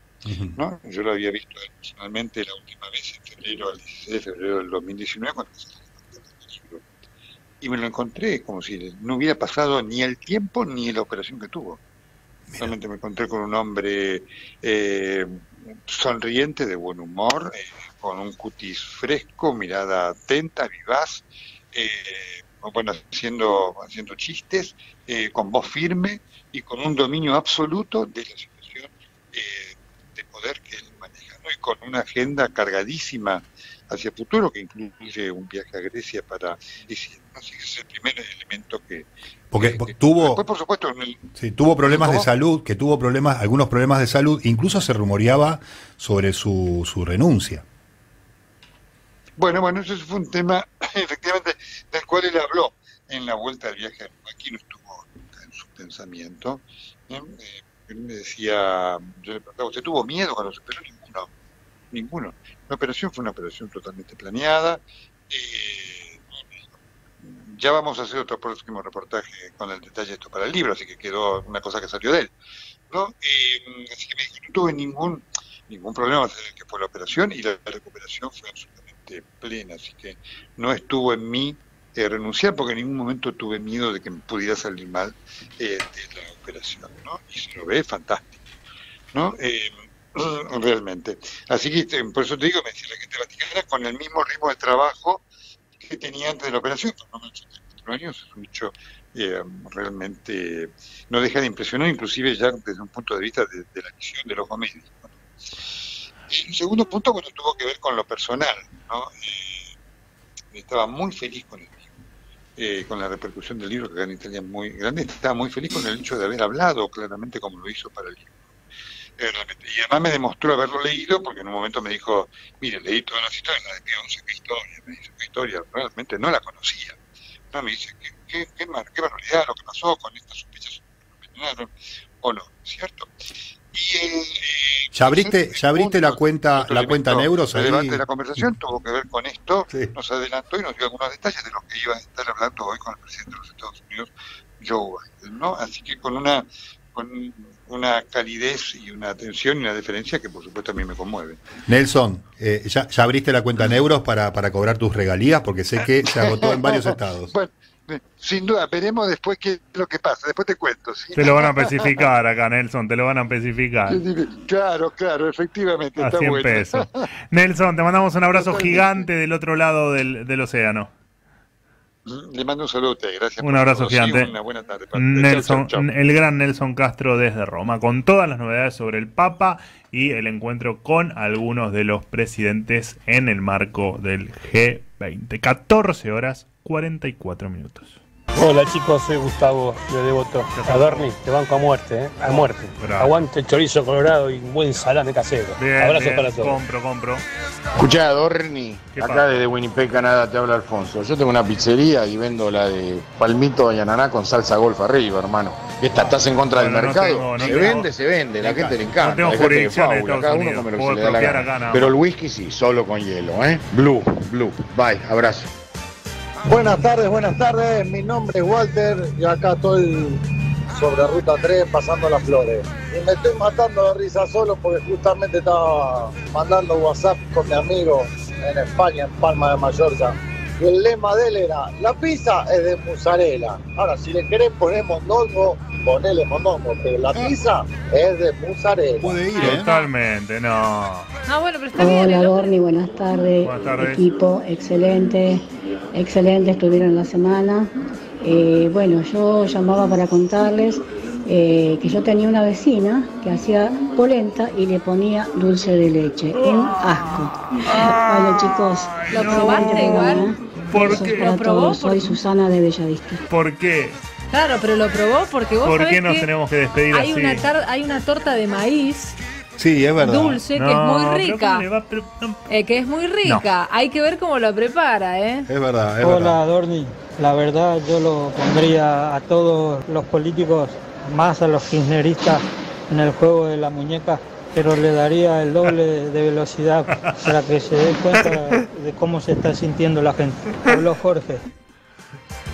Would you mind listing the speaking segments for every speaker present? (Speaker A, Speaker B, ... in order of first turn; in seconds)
Speaker A: 0.2-0.6, 39.5-40.4, 41.4-47.6, 134.9-138.5, 151.7-157.3, 208.4-208.8, 239.0-239.7, 269.6-270.4, 275.5-276.4
Speaker B: 0.6-6.9, 7.6-11.8, 12.6-41.3, 41.9-42.3, 49.4-61.3, 61.9-72.3, 72.9-88.4, 89.1-95.2, 95.8-105.7, 106.3-109.7, 110.5-111.9, 112.6-118.5, 119.2-127.0, 127.5-133.1, 133.7-151.4, 156.0-161.8, 163.9-167.0, 168.3-169.1, 172.1-175.9
Speaker C: 161.1-164.0, 166.0-170.9, 173.4-174.3, 174.9-188.0, 190.5-191.1, 192.8-193.2, 195.6-197.2, 198.9-199.4, 206.0-207.9, 208.9-211.9, 239.4-241.1, 243.4-244.0, 259.1-259.9, 260.7-261.3, 263.3-264.0, 265.6-267.4, 270.5-272.4
Speaker D: 188.4-196.6
Speaker E: 197.8-215.5
Speaker F: 216.5-239.2
Speaker G: 239.4-239.9, 241.3-242.5, 259.1-262.2, 264.3-266.3, 266.9-269.2, 270.0-271.7, 272.5-275.5
Speaker H: 241.8-247.7, 248.2-263.2
Speaker I: 276.0-291.4